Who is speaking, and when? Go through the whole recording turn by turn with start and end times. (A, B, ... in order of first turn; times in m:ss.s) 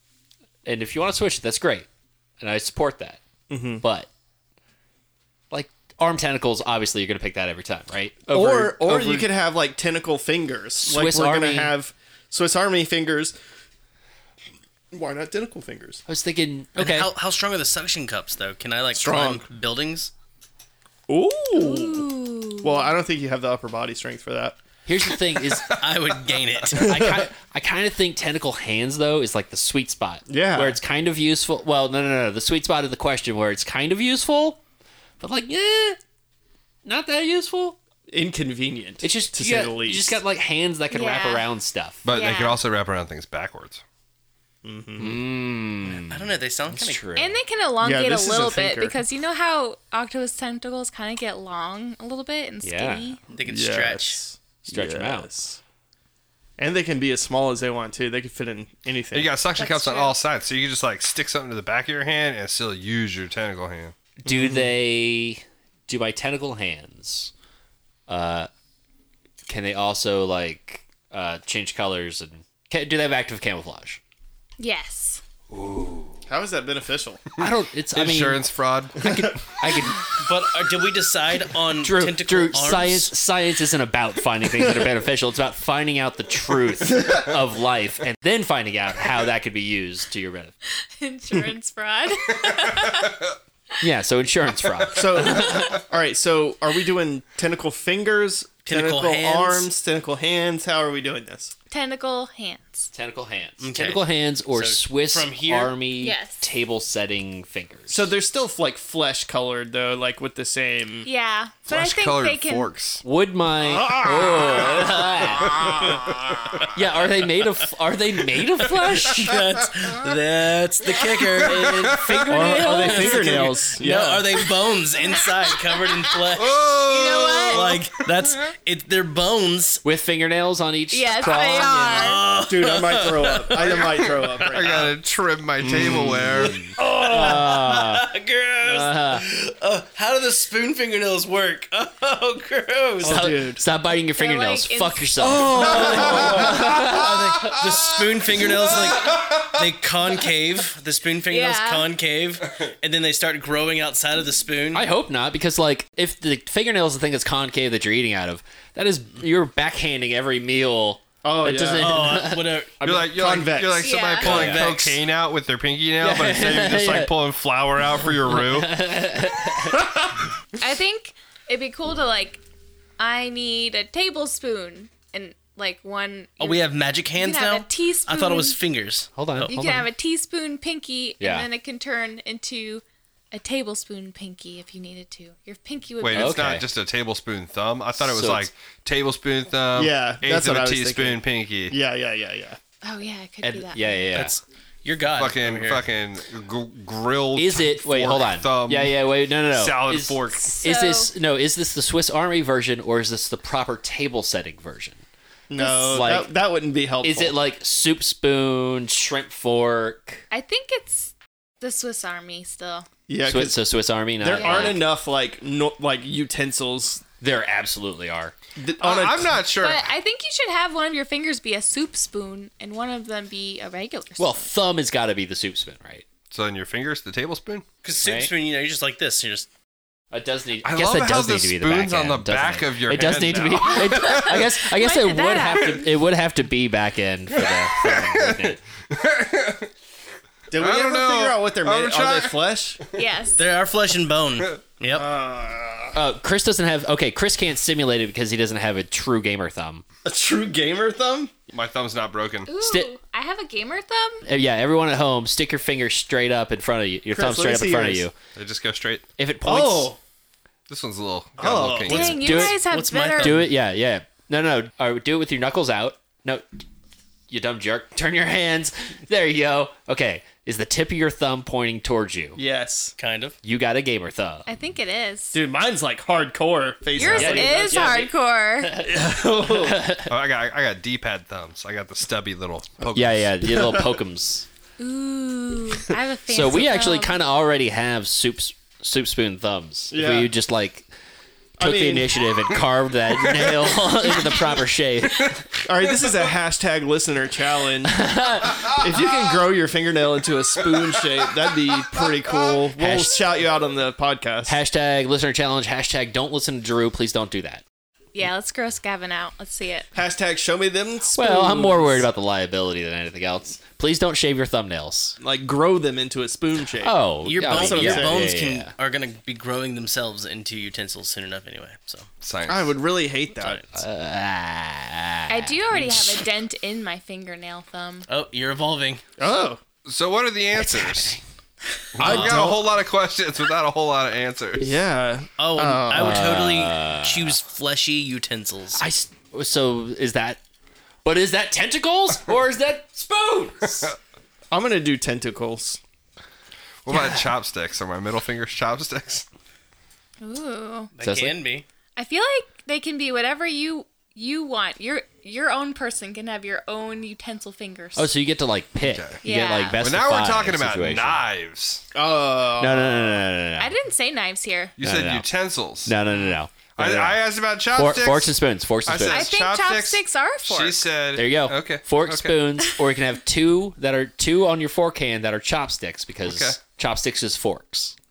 0:00.6-0:01.9 A
0:02.4-0:03.2 A
0:03.5-0:03.8 B
0:03.8-0:04.1 A
0:05.5-0:09.3 A
0:08.3-0:13.4 B
0:10.8-0:11.7 A
0:14.9-0:16.0 B
0:16.1-0:17.1 A
0:16.8-0:20.1 C
0:18.9-0:19.5 B
0:21.1-0:22.1 B
0:21.5-0:22.9 D
0:22.6-0:24.6 B
0:24.9-0:25.8 A
0:25.5-0:25.8 E
0:25.8-0:26.9 C
0:26.7-0:34.6 A
0:26.7-0:27.3 B
0:30.3-0:30.8 B
0:35.2-0:36.0 A
0:36.8-0:37.8 A
0:38.1-0:40.2 B
0:39.0-0:42.1 A
0:40.9-0:41.5 D
0:42.0-0:43.8 E
0:42.1-0:42.6 D
0:44.6-0:45.2 B
0:45.0-0:47.4 A
0:46.0-0:47.0 C
0:47.2-0:53.2 D
0:47.8-0:49.0 B
0:52.6-0:53.1 A
0:53.3-0:54.2 C
0:53.5-0:55.6 B
0:54.7-0:55.3 A
0:56.6-0:59.4 B
0:59.1-1:03.9 E
0:59.6-1:00.2 D
1:04.2-1:07.3 A
1:04.3-1:04.7 B
1:08.1-1:08.5 A
1:09.5-1:14.0 A
1:14.6-1:15.2 D
1:15.5-1:16.1 E
1:16.3-1:17.2 B
1:17.4-1:18.4 A
1:17.9-1:19.6 E
1:19.0-1:19.4 B
1:19.0-1:20.1 A
1:20.1-1:23.1 C
1:21.8-1:30.5 A
1:30.8-1:33.2 D
1:33.8-1:35.7 A
1:34.9-1:41.5 B
1:38.7-1:39.7 C
1:41.7-1:42.9 D
1:42.9-1:48.1 A
1:43.6-1:45.8 C
1:46.0-1:46.5 D
1:47.9-1:51.1 B
1:51.0-1:52.7 D
1:51.7-1:53.0 E
1:53.0-1:55.8 A
1:53.7-1:55.0 B
1:55.6-1:56.2 E
1:56.7-1:59.4 A
1:58.8-2:09.8 C
2:01.0-2:02.3 E
2:01.5-2:03.6 D
2:01.8-2:02.1 A
2:02.3-2:04.5 B
2:05.2-2:06.1 D
2:06.3-2:07.7 E
2:06.8-2:07.8 D
2:09.8-2:12.1 A
2:10.9-2:12.3 D
2:11.8-2:14.9 C
2:12.3-2:14.9 B
2:14.5-2:16.6 E
2:15.6-2:16.6 B
2:16.3-2:23.3 C
2:16.5-2:18.1 A
2:18.6-2:19.2 A
2:23.0-2:23.6 B
2:23.0-2:27.2 A
2:24.1-2:25.7 D
2:25.2-2:26.6 B
2:25.3-2:34.9 C
2:26.0-2:26.2 E
2:28.3-2:29.5 E
2:31.3-2:31.9 D
2:34.7-2:42.5 A
2:41.2-2:42.2 B
2:41.8-2:42.8 C
2:42.8-2:43.9 B
2:42.8-2:48.8 E
2:43.8-2:44.6 D
2:44.2-2:45.0 C
2:46.0-2:47.1 A
2:48.3-2:49.9 A
2:50.6-2:52.4 D
2:53.0-2:58.6 D
2:56.4-2:59.6 C
2:59.2-2:59.9 A
2:59.5-3:06.5 D
3:01.2-3:01.5 A
3:06.0-3:11.8 E
3:06.1-3:06.7 A
3:08.0-3:08.5 A
3:09.8-3:12.6 B
3:12.8-3:14.3 D
3:13.4-3:14.4 A
3:14.2-3:15.8 C
3:15.1-3:20.6 E
3:17.4-3:25.0 A
3:20.3-3:21.1 D
3:25.5-3:27.4 B
3:25.6-3:26.0 D
3:25.9-3:26.3 A
3:27.0-3:30.2 A
3:30.3-3:32.9 D
3:33.1-3:33.6 B
3:33.3-3:34.8 A
3:34.2-3:37.0 B
3:34.3-3:34.8 D
3:37.2-3:38.4 A
3:38.6-3:39.5 B
3:38.8-3:39.9 E
3:39.6-3:44.5 D
3:44.2-3:46.1 A
3:46.3-3:47.7 E
3:47.8-3:49.5 C
3:48.0-3:48.3 A
3:50.1-3:58.6 A
3:50.6-3:54.4 E
3:54.2-3:55.9 D
3:57.4-3:59.7 E
4:00.5-4:02.8 B
4:00.5-4:02.4 E
4:02.9-4:03.4 D
4:03.4-4:05.1 C
4:04.9-4:06.0 B
4:05.9-4:09.8 A
4:10.0-4:11.3 B
4:11.5-4:12.5 E
4:12.5-4:14.2 D
4:12.6-4:12.9 A
4:14.2-4:18.1 A
4:17.1-4:18.1 B
4:18.4-4:19.1 E
4:19.2-4:19.9 A
4:19.4-4:20.0 B
4:20.7-4:22.2 E
4:21.4-4:22.2 B
4:21.9-4:23.4 D
4:21.9-4:23.5 C
4:22.0-4:26.6 A
4:27.3-4:32.4 A
4:32.4-4:32.9 B
4:33.0-4:33.4 C
4:33.4-4:34.5 A
4:34.5-4:35.4 D
4:35.3-4:38.0 B
4:37.0-4:38.8 D
4:37.0-4:40.1 A
4:38.8-4:39.9 B
4:40.1-4:43.4 E
4:43.0-4:44.5 A
4:43.4-4:44.0 B
4:44.8-4:47.2 D
4:46.3-4:50.9 A
4:49.9-4:50.3 B
4:51.6-4:52.2 B
4:51.6-4:55.4 A
4:55.6-5:04.6 B
4:57.9-4:58.9 A
5:02.8-5:03.2 A
5:04.5-5:07.6 A
5:08.2-5:09.9 D
5:10.0-5:12.1 B
5:11.2-5:15.2 A
5:15.2-5:18.3 B
5:16.8-5:18.7 A
5:17.2-5:22.1 C
5:22.2-5:22.8 E
5:22.5-5:23.6 B
5:23.7-5:26.2 A
5:25.3-5:28.1 D
5:28.1-5:29.0 C
5:29.2-5:29.6 B
5:29.9-5:31.2 E
5:30.5-5:31.2 A
5:32.0-5:34.8 E
5:32.0-5:32.8 B
5:34.6-5:36.3 B
5:35.4-5:38.8 C
5:36.0-5:37.4 A
5:38.8-5:40.4 A
5:41.0-5:43.9 A
5:44.5-5:45.8 B
5:46.8-5:49.3 E
5:46.9-5:47.3 A
5:50.2-5:50.9 D
5:51.0-5:51.7 C
5:51.0-5:51.4 A
5:52.0-5:58.1 D
5:58.0-6:01.3 A
5:58.8-5:59.2 E
5:59.2-5:59.8 D
5:59.8-6:01.8 E
6:01.9-6:03.2 B
6:02.6-6:03.7 A
6:03.6-6:04.8 D
6:04.8-6:06.0 E
6:04.8-6:05.3 A
6:05.8-6:09.3 A
6:06.8-6:12.4 E
6:09.1-6:10.9 D
6:11.1-6:18.0 A
6:16.2-6:16.6 E